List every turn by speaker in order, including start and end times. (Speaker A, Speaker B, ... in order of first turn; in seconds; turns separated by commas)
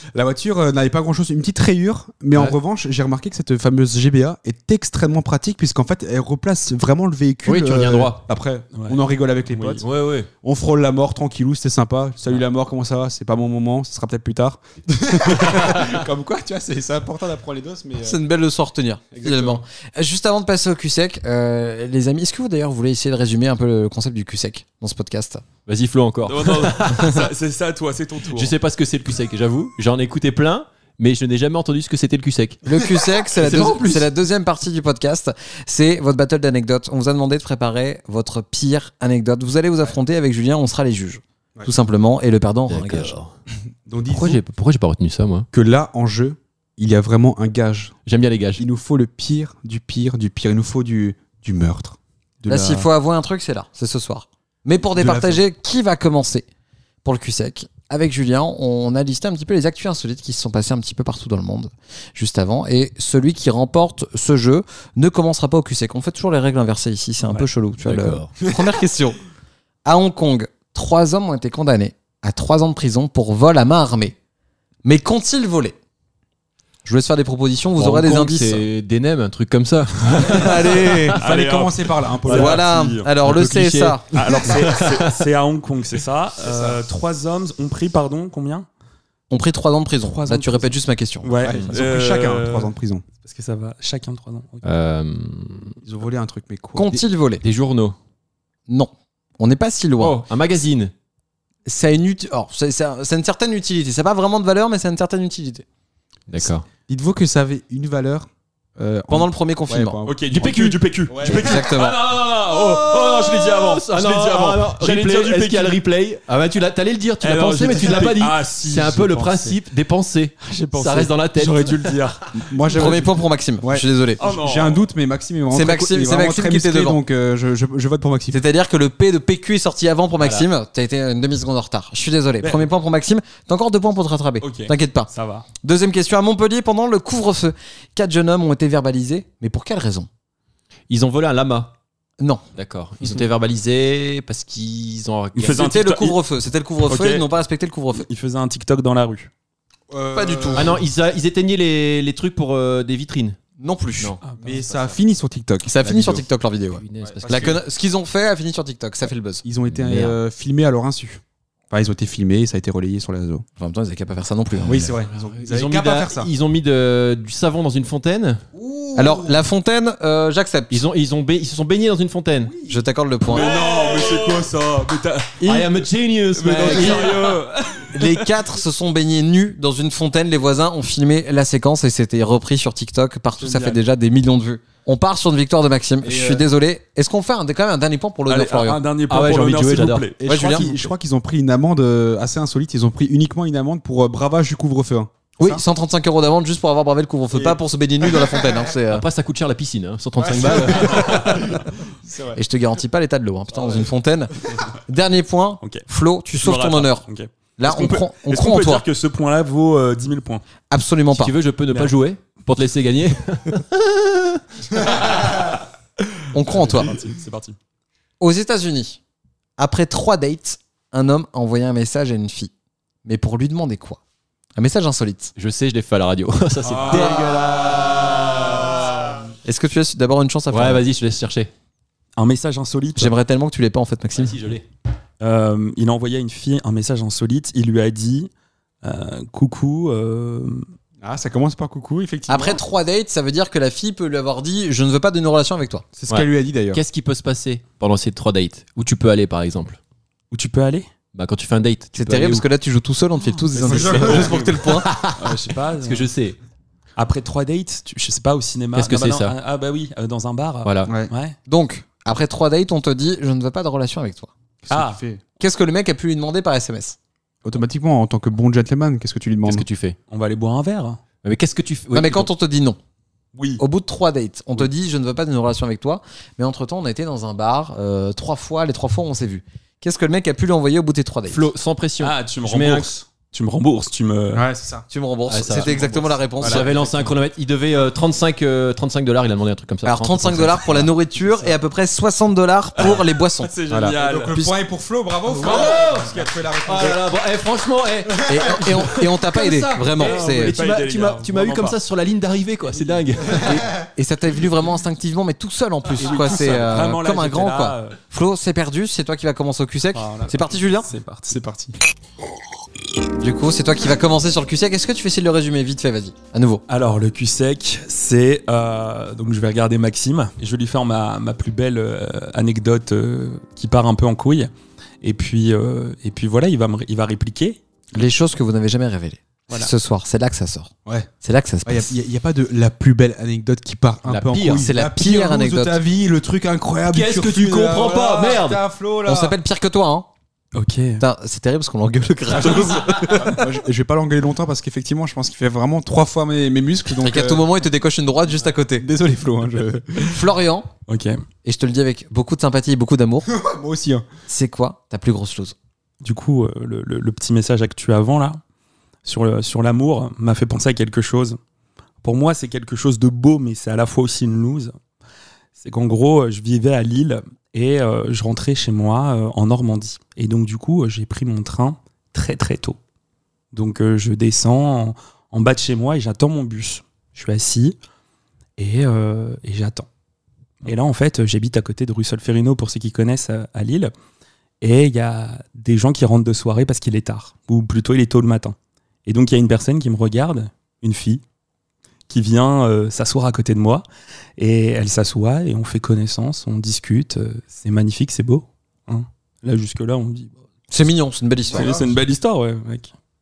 Speaker A: 0.1-9.9, Speaker B: 7.5-8.2, Speaker C: 8.7-9.0, Speaker C: 9.5-9.8, Speaker B: 9.8-10.3, Speaker A: 10.4-18.2, Speaker B: 15.4-15.9, Speaker D: 18.0-25.4, Speaker A: 19.1-19.6, Speaker B: 25.6-27.3, Speaker C: 26.3-28.5, Speaker B: 28.3-32.6, Speaker D: 32.6-43.1, Speaker B: 33.4-34.1, Speaker B: 42.7-43.3, Speaker A: 43.9-44.4, Speaker B: 44.1-45.5, Speaker A: 45.5-47.9, Speaker B: 48.1-48.6, Speaker A: 48.6-52.9, Speaker D: 52.5-56.5, Speaker A: 54.9-55.4, Speaker D: 57.0-69.2, Speaker C: 67.2-67.5, Speaker B: 67.8-68.3, Speaker D: 69.8-74.1, Speaker D: 74.8-75.8, Speaker D: 76.9-78.6, Speaker B: 77.8-81.1, Speaker D: 80.2-81.2, Speaker A: 81.1-82.7, Speaker C: 81.2-83.1, Speaker D: 82.3-84.0, Speaker B: 83.2-85.2, Speaker C: 84.1-88.7, Speaker A: 86.4-86.8, Speaker D: 89.3-91.3, Speaker C: 90.0-94.6, Speaker A: 91.4-93.0, Speaker B: 94.6-95.8, Speaker A: 95.8-96.9, Speaker D: 96.8-97.4, Speaker B: 96.9-98.0, Speaker D: 98.7-100.2, Speaker B: 100.0-100.9, Speaker D: 101.7-105.6, Speaker B: 106.3-106.7, Speaker A: 106.9-111.6, Speaker D: 109.1-110.0, Speaker C: 110.0-115.8, Speaker D: 111.2-112.0, Speaker B: 111.3-122.2, Speaker C: 117.2-119.6, Speaker C: 120.4-122.3, Speaker A: 122.4-128.4, Speaker D: 122.7-124.2, Speaker C: 124.2-124.8, Speaker D: 125.5-127.0, Speaker D: 128.3-135.1, Speaker B: 130.2-130.5, Speaker C: 132.4-132.7, Speaker C: 134.4-135.4, Speaker D: 135.6-140.1, Speaker B: 140.9-141.7, Speaker B: 142.5-145.7, Speaker C: 145.4-146.2, Speaker D: 145.5-148.1, Speaker C: 146.9-147.2, Speaker C: 147.9-149.3, Speaker A: 149.9-150.8, Speaker D: 150.1-150.7, Speaker B: 150.5-153.4, Speaker D: 153.6-154.1, Speaker B: 154.0-155.0, Speaker C: 154.2-154.6, Speaker A: 154.4-156.2, Speaker D: 155.7-159.4, Speaker B: 156.8-157.6, Speaker A: 157.0-157.6, Speaker A: 159.4-163.4, Speaker B: 159.7-160.1, Speaker D: 163.6-164.9, Speaker B: 164.6-168.4, Speaker A: 164.7-166.3, Speaker A: 168.5-169.4, Speaker D: 169.0-170.8, Speaker B: 170.7-172.5, Speaker A: 172.5-172.8, Speaker D: 172.7-173.5, Speaker C: 173.3-175.8, Speaker A: 173.5-174.1, Speaker B: 175.4-177.4, Speaker C: 176.4-178.3, Speaker D: 177.9-188.8, Speaker C: 183.4-183.8, Speaker A: 186.0-186.4, Speaker C: 188.3-190.9, Speaker B: 189.1-190.1, Speaker A: 190.2-195.6, Speaker D: 190.3-190.7, Speaker D: 195.4-199.0, Speaker B: 198.9-201.6, Speaker A: 200.2-202.4, Speaker C: 200.8-201.6, Speaker D: 202.3-207.0, Speaker C: 206.4-210.4, Speaker D: 207.6-208.8, Speaker D: 210.7-211.3, Speaker B: 211.1-215.4, Speaker D: 216.3-216.9, Speaker C: 216.4-217.6, Speaker D: 218.2-219.0, Speaker D: 219.6-222.5, Speaker D: 223.0-224.0, Speaker D: 224.6-225.3, Speaker B: 225.4-229.1, Speaker C: 226.7-229.2, Speaker D: 226.9-227.2, Speaker D: 229.4-230.8, Speaker B: 230.5-231.5, Speaker C: 232.2-233.1, Speaker D: 233.0-234.4, Speaker B: 234.2-234.6, Speaker C: 235.2-238.3, Speaker C: 238.8-240.7, Speaker A: 241.0-242.6, Speaker D: 242.3-245.8, Speaker A: 246.0-246.8, Speaker B: 246.1-249.8, Speaker C: 250.3-250.9, Speaker B: 251.1-252.4, Speaker D: 251.9-254.9, Speaker C: 253.5-254.5, Speaker A: 253.6-254.7, Speaker B: 254.8-256.4, Speaker C: 255.2-256.1, Speaker C: 257.0-261.4, Speaker B: 258.8-259.4, Speaker B: 260.6-260.9, Speaker D: 261.5-264.3, Speaker A: 264.6-265.2, Speaker C: 264.7-265.0, Speaker D: 265.4-267.0, Speaker A: 267.4-269.6, Speaker B: 269.5-270.0, Speaker C: 270.1-271.0, Speaker B: 271.2-272.3, Speaker D: 271.9-272.8, Speaker C: 273.3-273.6, Speaker D: 273.6-281.5, Speaker B: 281.3-282.9, Speaker C: 282.0-284.4, Speaker A: 284.3-284.8, Speaker D: 284.9-287.0, Speaker B: 285.3-290.9, Speaker A: 285.5-285.8, Speaker A: 286.4-286.8, Speaker D: 289.8-293.5, Speaker C: 292.8-294.4, Speaker A: 293.7-297.0, Speaker B: 295.4-296.1, Speaker C: 295.4-295.8, Speaker B: 296.6-303.7, Speaker D: 298.3-300.5, Speaker C: 300.0-301.8, Speaker D: 304.0-310.9, Speaker C: 306.0-308.0, Speaker C: 309.9-311.4, Speaker A: 311.3-311.8, Speaker D: 313.2-316.6, Speaker C: 316.7-324.5, Speaker C: 325.0-327.6, Speaker D: 327.9-330.7, Speaker D: 331.2-331.9, Speaker A: 331.7-339.4, Speaker B: 334.1-334.7, Speaker D: 334.6-335.8, Speaker B: 336.9-338.6, Speaker D: 339.1-340.1, Speaker C: 340.5-341.0, Speaker D: 341.0-343.4, Speaker C: 342.4-343.4, Speaker A: 342.5-347.4, Speaker D: 347.0-348.8, Speaker A: 348.8-350.2, Speaker D: 350.1-350.7, Speaker C: 350.9-351.2, Speaker D: 351.4-353.3, Speaker A: 353.3-354.0, Speaker D: 354.3-355.5, Speaker C: 356.0-358.4, Speaker C: 359.0-361.4, Speaker C: 362.0-364.7, Speaker C: 365.6-372.8, Speaker C: 373.5-377.8, Speaker C: 378.6-379.9, Speaker C: 380.6-383.9, Speaker C: 384.6-388.5, Speaker C: 389.1-391.2, Speaker C: 392.1-393.8, Speaker C: 394.4-400.3, Speaker D: 400.7-401.8, Speaker A: 401.5-402.0, Speaker C: 401.5-402.9